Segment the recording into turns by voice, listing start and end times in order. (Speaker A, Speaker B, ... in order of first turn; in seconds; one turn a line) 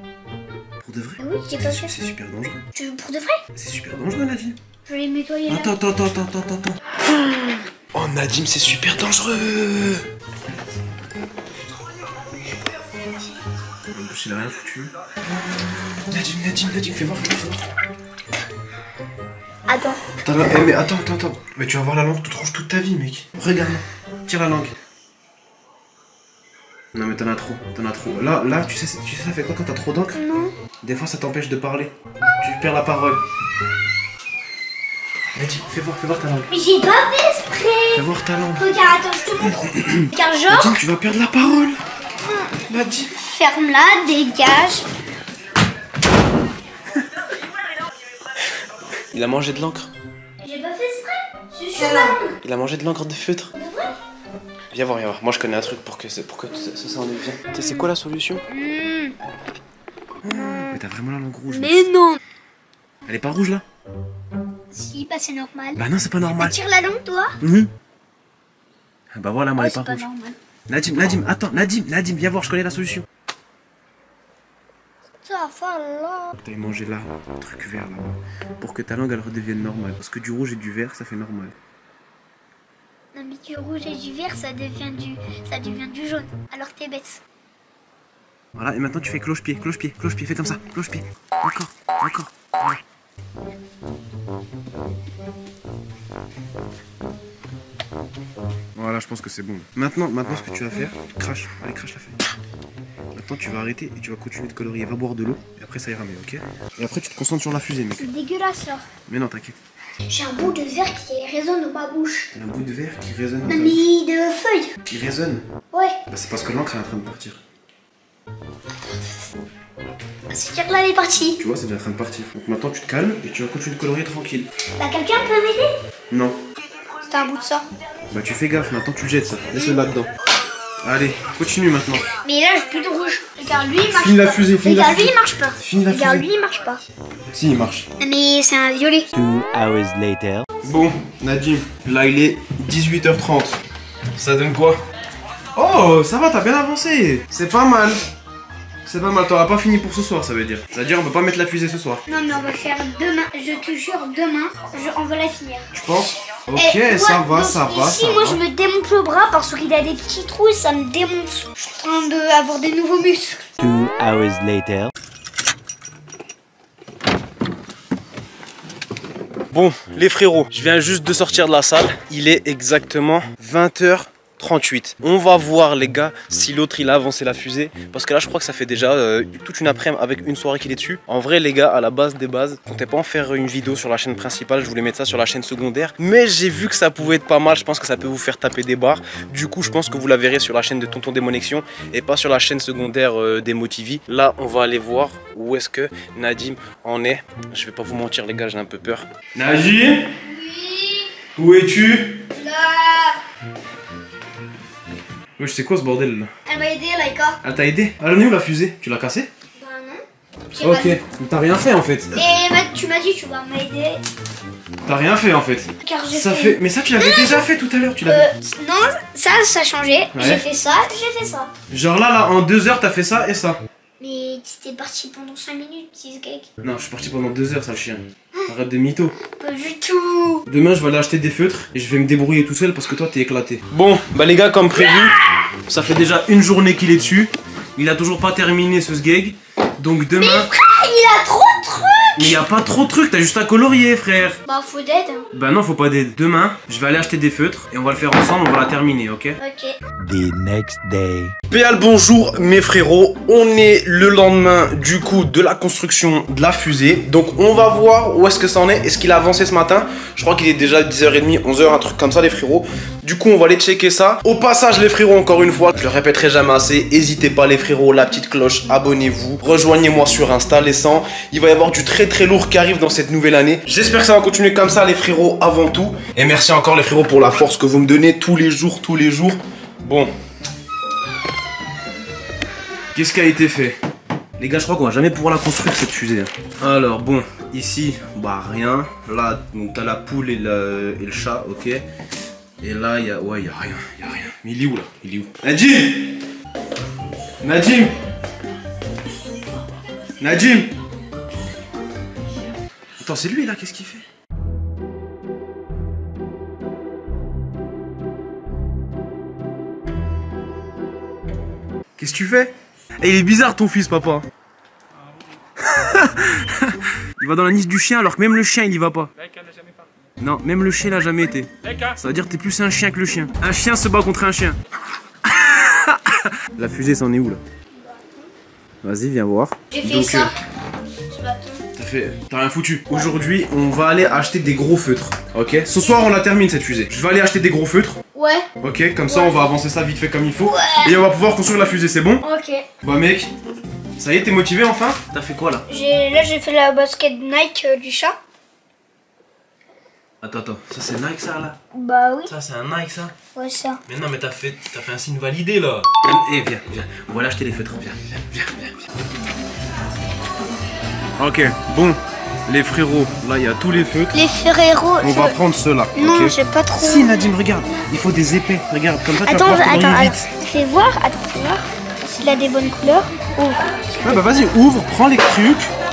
Speaker A: 0.8-2.6
Speaker B: 1.2-1.9
Speaker B: 2.7-3.4
Speaker A: 3.5-4.6
Speaker B: 4.9-5.7
Speaker A: 5.5-10.1
Speaker A: 13.9-14.9
Speaker A: 16.1-17.6
Speaker B: 19.7-20.0
Speaker A: 20.2-24.7
Speaker A: 26.9-30.2
Speaker B: 30.1-30.5
Speaker A: 30.8-33.2
Speaker A: 35.4-36.5
Speaker B: 36.5-38.0
Speaker A: 37.9-38.7
Speaker B: 38.6-40.8
Speaker A: 39.4-41.8
Speaker B: 42.2-42.5
Speaker A: 42.7-43.1
Speaker B: 43.2-44.9
Speaker A: 49.1-49.9
Speaker B: 50.4-52.4
Speaker A: 52.4-53.5
Speaker B: 53.5-54.0
Speaker A: 54.7-58.4
Speaker B: 58.5-59.1
Speaker A: 60.2-61.9
Speaker B: 61.5-62.2
Speaker A: 63.1-63.6
Speaker B: 64.7-67.4
Speaker A: 65.8-66.6
Speaker A: 67.4-67.7
Speaker A: 69.1-70.0
Speaker B: 69.6-70.4
Speaker A: 70.7-73.0
Speaker B: 75.2-76.3
Speaker A: 76.3-81.5
Speaker B: 83.1-87.2
Speaker A: 88.6-92.8
Speaker A: 98.7-102.2
Speaker A: 103.1-108.1
Speaker B: 108.0-108.9
Speaker A: 109.1-109.5
Speaker B: 110.1-112.3
Speaker A: 112.3-113.8
Speaker B: 113.5-114.7
Speaker A: 114.9-115.4
Speaker A: 116.1-117.4
Speaker B: 120.3-121.4
Speaker A: 121.4-124.5
Speaker B: 124.8-125.7
Speaker A: 126.1-126.4
Speaker B: 127.0-127.6
Speaker A: 128.1-130.1
Speaker A: 130.8-132.1
Speaker B: 132.2-136.8
Speaker A: 133.9-136.2
Speaker A: 137.3-137.9
Speaker B: 138.0-139.1
Speaker C: 139.1-140.4
Speaker A: 140.6-143.6
Speaker A: 144.2-144.8
Speaker A: 145.6-148.0
Speaker A: 148.8-152.0
Speaker B: 152.1-155.7
Speaker A: 155.7-158.4
Speaker B: 156.6-163.4
Speaker C: 163.6-164.9
Speaker A: 169.5-200.1
Speaker B: 200.2-201.1
Speaker A: 201.3-202.2
Speaker B: 202.3-203.2
Speaker A: 205.4-206.3
Speaker B: 206.5-207.4
Speaker A: 207.4-209.3
Speaker B: 209.6-211.0
Speaker A: 210.6-212.2
Speaker B: 212.1-214.0
Speaker A: 214.8-218.3
Speaker B: 215.8-217.4
Speaker B: 218.1-221.5
Speaker A: 220.1-220.4
Speaker A: 221.7-223.6
Speaker B: 224.0-226.5
Speaker A: 226.6-229.1
Speaker B: 229.3-230.4
Speaker A: 230.5-235.2
Speaker B: 234.7-235.5
Speaker A: 235.7-240.5
Speaker B: 240.2-242.4
Speaker A: 242.2-244.4
Speaker B: 244.4-245.2
Speaker A: 245.3-249.4
Speaker B: 249.4-249.8
Speaker C: 250.0-251.3
Speaker A: 251.5-280.1
Speaker A: 282.9-283.8
Speaker A: 284.4-291.8
Speaker A: 292.6-296.2
Speaker A: 297.4-297.9
Speaker A: 300.2-300.7
Speaker A: 303.0-304.0
Speaker A: 312.0-314.2
Speaker A: 315.6-319.1
Speaker A: 320.2-324.6
Speaker A: 325.2-327.4
Speaker B: 327.7-328.3
Speaker A: 328.8-330.3
Speaker B: 329.7-330.3
Speaker B: 331.1-331.6
Speaker A: 331.7-338.0
Speaker B: 338.1-338.5
Speaker A: 338.6-342.2
Speaker B: 339.1-339.4
Speaker B: 340.4-340.9
Speaker B: 342.2-342.7
Speaker A: 342.8-343.3
Speaker A: 344.0-345.6
Speaker B: 345.7-348.2
Speaker A: 350.2-351.6
Speaker B: 351.7-352.3
Speaker A: 352.2-353.1
Speaker B: 353.3-353.8
Speaker A: 353.9-358.8
Speaker A: 361.2-364.2
Speaker B: 364.1-365.4
Speaker A: 365.0-370.2
Speaker B: 365.9-367.1
Speaker B: 369.2-373.8
Speaker A: 374.0-375.7